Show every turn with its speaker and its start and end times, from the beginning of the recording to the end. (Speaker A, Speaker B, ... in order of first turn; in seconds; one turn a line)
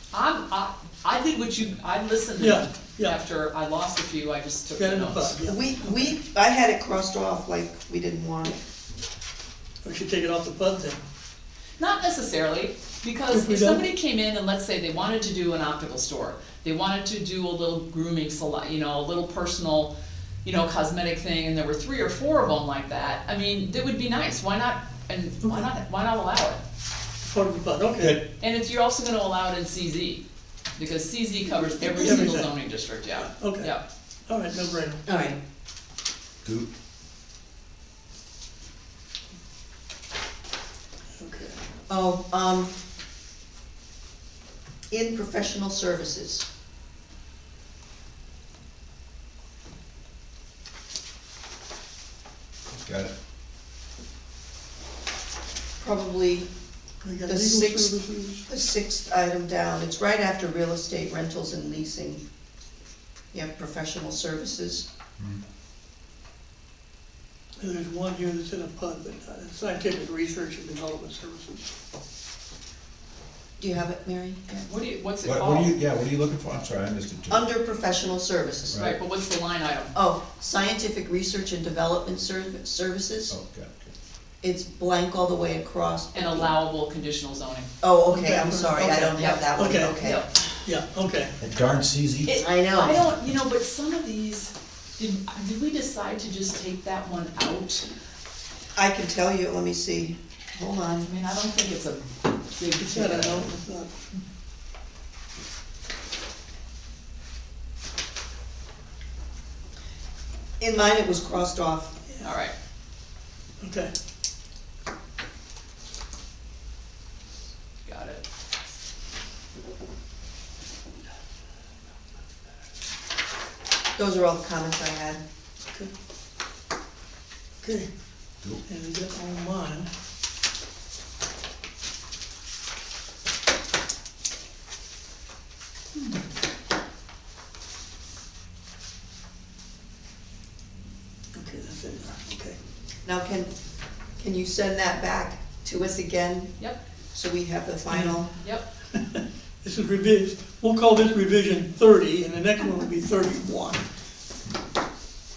Speaker A: 0.1-5.3
Speaker B: 2.4-3.2
Speaker B: 4.8-5.6
Speaker C: 5.5-8.6
Speaker B: 9.8-11.0
Speaker A: 11.8-19.9
Speaker B: 13.3-13.9
Speaker A: 20.4-26.6
Speaker B: 27.2-28.2
Speaker D: 28.0-28.2
Speaker A: 28.4-30.2
Speaker A: 30.8-33.8
Speaker B: 32.0-32.5
Speaker B: 33.4-33.7
Speaker B: 34.3-35.0
Speaker C: 35.0-35.4
Speaker B: 41.2-41.6
Speaker C: 41.9-42.7
Speaker C: 44.9-46.5
Speaker D: 52.8-53.1
Speaker C: 55.8-56.5
Speaker B: 57.0-58.4
Speaker C: 57.2-62.2
Speaker C: 63.3-64.8
Speaker B: 67.6-71.7
Speaker C: 73.6-74.4
Speaker A: 74.5-75.8
Speaker D: 75.2-77.5
Speaker C: 77.3-78.9
Speaker A: 78.8-79.9
Speaker C: 79.9-83.3
Speaker D: 83.3-83.9
Speaker C: 84.4-86.5
Speaker A: 86.1-87.7
Speaker C: 87.8-90.2
Speaker B: 88.1-90.0
Speaker A: 89.2-89.4
Speaker A: 90.0-90.3
Speaker B: 90.6-91.3
Speaker D: 91.4-92.3
Speaker A: 92.2-97.8
Speaker C: 92.3-93.0
Speaker C: 98.7-101.1
Speaker A: 101.0-103.5
Speaker B: 102.8-103.9
Speaker C: 110.6-111.9
Speaker A: 112.2-112.5
Speaker B: 113.6-113.9
Speaker A: 117.8-118.2
Speaker C: 124.0-125.2
Speaker B: 127.6-127.9
Speaker B: 128.6-129.9
Speaker B: 141.3-142.6
Speaker C: 143.0-143.5
Speaker C: 144.2-146.6
Speaker C: 147.1-148.3
Speaker B: 147.9-148.2
Speaker A: 148.4-148.7
Speaker B: 149.1-153.8